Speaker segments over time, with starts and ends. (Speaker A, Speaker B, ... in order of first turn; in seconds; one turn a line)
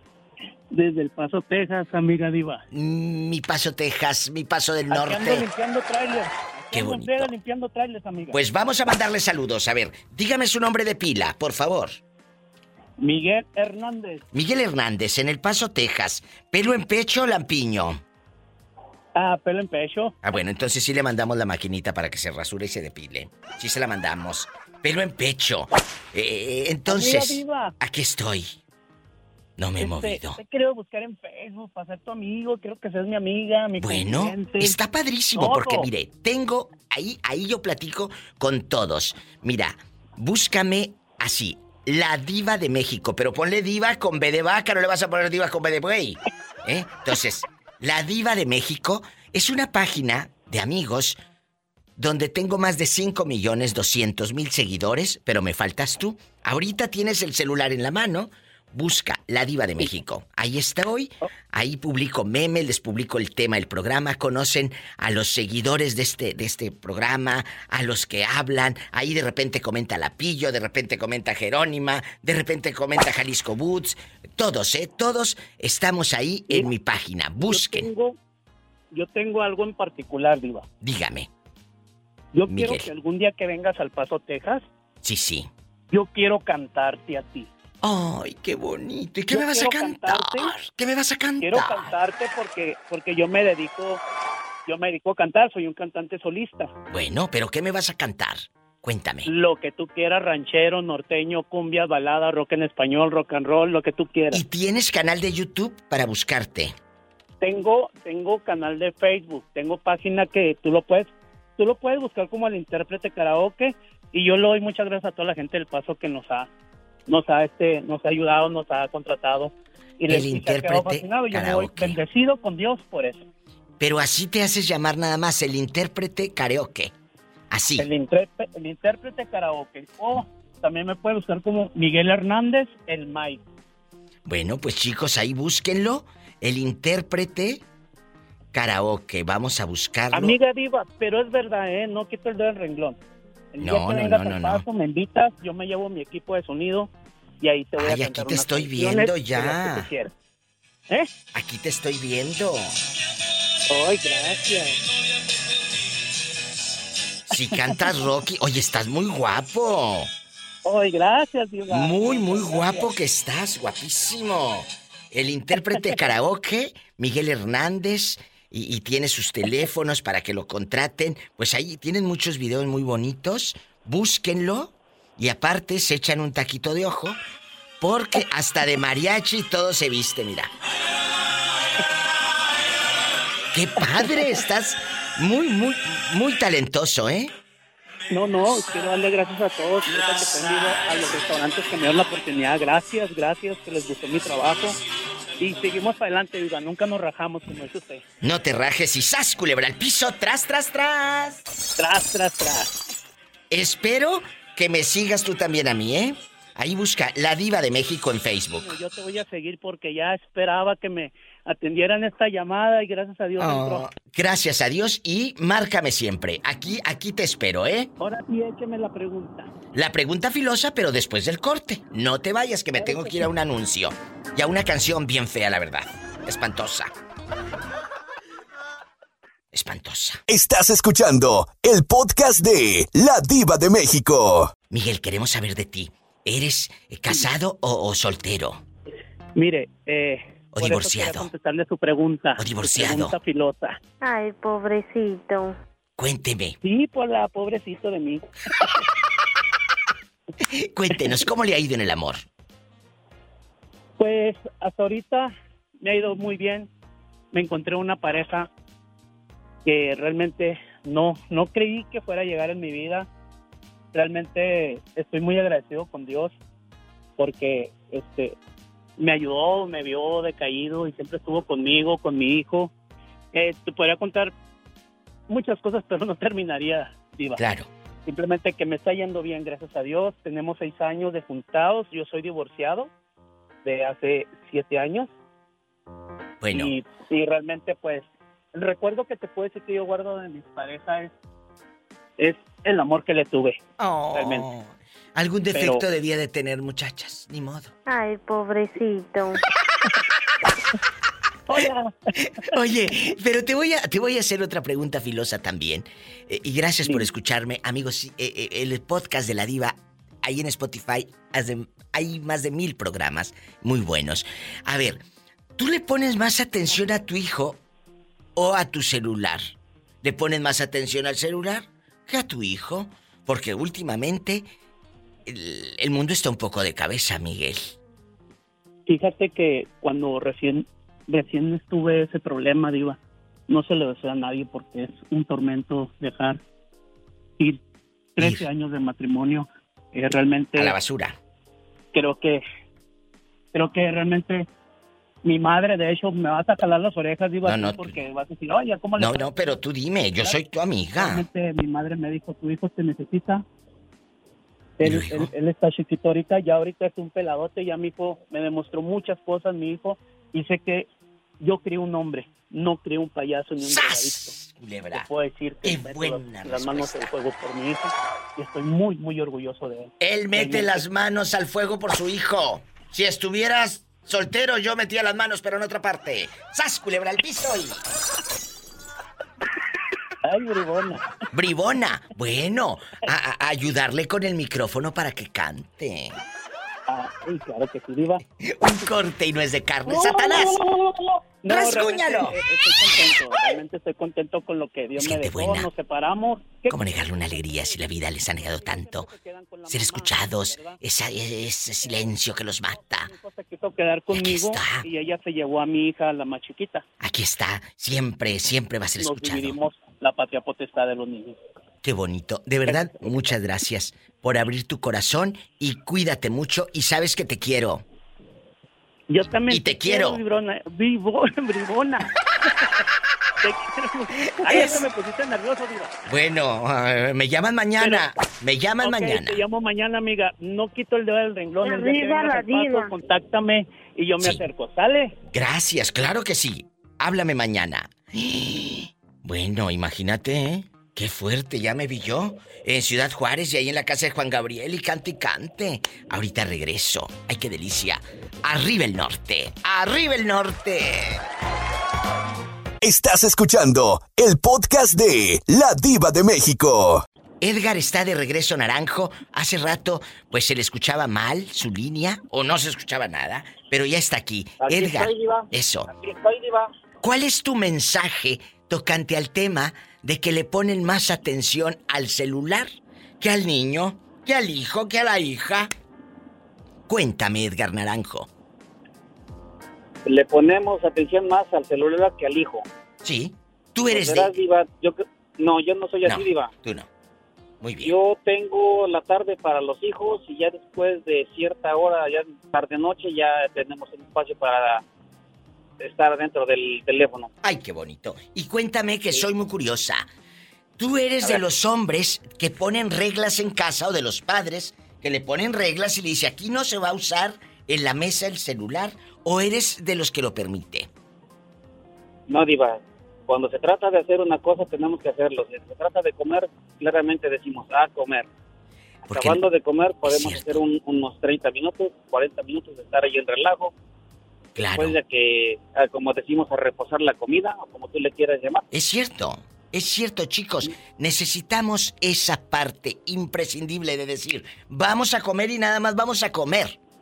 Speaker A: 0.7-2.6
Speaker B: 2.7-5.5
Speaker A: 4.9-8.4
Speaker B: 6.7-7.3
Speaker B: 8.3-12.0
Speaker A: 13.0-14.2
Speaker B: 14.3-18.0
Speaker A: 19.1-20.1
Speaker B: 20.2-28.6
Speaker A: 26.9-27.7
Speaker B: 29.6-30.4
Speaker A: 29.8-34.8
Speaker B: 33.8-51.2
Speaker A: 35.3-35.9
Speaker B: 52.0-77.9
Speaker A: 77.4-78.1
Speaker A: 78.9-80.7
Speaker B: 80.8-81.3
Speaker A: 82.3-84.6
Speaker B: 82.5-82.9
Speaker B: 85.0-85.5
Speaker A: 85.9-87.5
Speaker B: 87.8-91.9
Speaker A: 89.3-90.5
Speaker A: 91.4-94.0
Speaker A: 94.7-96.7
Speaker B: 96.9-99.3
Speaker A: 99.3-104.4
Speaker B: 104.3-106.7
Speaker A: 107.4-116.5
Speaker A: 117.1-123.2
Speaker B: 120.1-122.0
Speaker B: 123.8-126.9
Speaker B: 127.5-127.9
Speaker A: 127.7-133.4
Speaker B: 134.2-137.6
Speaker B: 138.5-140.3
Speaker A: 140.1-143.0
Speaker A: 143.5-150.1
Speaker B: 143.6-144.6
Speaker B: 147.8-149.9
Speaker B: 151.3-152.7
Speaker A: 153.7-154.8
Speaker B: 157.3-160.1
Speaker A: 160.6-162.9
Speaker B: 161.7-177.2
Speaker B: 177.8-180.5
Speaker B: 183.5-187.3
Speaker A: 188.1-194.8
Speaker A: 195.4-198.0
Speaker B: 198.2-201.4
Speaker A: 201.8-202.8
Speaker B: 203.5-208.7
Speaker A: 208.6-213.9
Speaker B: 213.4-217.9
Speaker A: 218.0-219.5
Speaker B: 219.7-226.9
Speaker A: 222.8-223.2
Speaker B: 229.5-230.2
Speaker C: 230.3-234.5
Speaker B: 234.7-238.6
Speaker A: 239.4-243.8
Speaker B: 240.5-241.3
Speaker B: 242.4-243.1
Speaker D: 244.0-245.6
Speaker B: 246.0-246.6
Speaker A: 246.6-248.2
Speaker B: 250.6-252.3
Speaker A: 254.0-256.7
Speaker A: 257.3-258.5
Speaker A: 259.6-263.1
Speaker A: 263.9-266.3
Speaker A: 267.2-268.4
Speaker A: 269.0-272.7
Speaker A: 273.3-274.3
Speaker A: 275.3-277.4
Speaker B: 277.4-277.7
Speaker A: 278.1-282.9
Speaker A: 283.6-285.1
Speaker B: 286.4-286.7
Speaker A: 286.5-291.1
Speaker A: 292.2-293.6
Speaker B: 293.8-297.7
Speaker A: 294.1-294.4
Speaker A: 295.5-295.8
Speaker D: 297.9-299.4
Speaker A: 301.5-301.9
Speaker B: 302.4-315.0
Speaker B: 315.6-317.6
Speaker B: 318.4-324.5
Speaker B: 325.3-327.8
Speaker A: 328.9-336.4
Speaker A: 338.2-340.7
Speaker B: 338.2-338.4
Speaker B: 340.6-341.1
Speaker A: 341.9-342.4
Speaker A: 343.5-344.5
Speaker A: 345.2-349.3
Speaker B: 347.4-348.0
Speaker B: 349.0-351.2
Speaker A: 350.9-353.4
Speaker A: 354.8-360.9
Speaker B: 354.8-355.3
Speaker A: 361.4-364.3
Speaker B: 363.6-365.1
Speaker A: 364.9-370.8
Speaker B: 365.6-367.1
Speaker B: 370.0-377.8
Speaker A: 380.2-381.1
Speaker B: 381.3-386.2
Speaker A: 386.9-388.2
Speaker B: 388.4-390.6
Speaker A: 391.4-400.8
Speaker B: 391.5-392.4
Speaker B: 395.0-395.7
Speaker B: 396.7-399.1
Speaker B: 399.7-403.1
Speaker A: 401.8-402.1
Speaker A: 402.7-406.8
Speaker B: 404.1-404.8
Speaker B: 407.0-409.6
Speaker A: 409.0-411.4
Speaker B: 411.8-417.8
Speaker A: 412.7-413.1
Speaker A: 419.1-422.1
Speaker B: 419.5-420.2
Speaker A: 423.4-425.9
Speaker B: 424.3-424.8
Speaker B: 426.1-429.4
Speaker A: 428.8-435.1
Speaker D: 431.6-432.9
Speaker B: 435.3-451.2
Speaker C: 452.8-457.1
Speaker B: 457.4-465.9
Speaker E: 464.6-466.7
Speaker B: 467.0-475.7
Speaker B: 476.9-478.3
Speaker E: 480.1-482.6
Speaker B: 483.0-484.3
Speaker E: 483.9-486.5
Speaker B: 486.0-486.9
Speaker B: 487.6-487.9
Speaker E: 487.8-494.8
Speaker E: 495.8-497.3
Speaker B: 497.4-500.1
Speaker B: 500.8-510.9
Speaker E: 512.3-518.3
Speaker B: 519.0-519.4
Speaker E: 519.1-523.7
Speaker B: 520.0-520.6
Speaker B: 524.5-525.0
Speaker E: 524.8-528.6
Speaker B: 528.7-536.8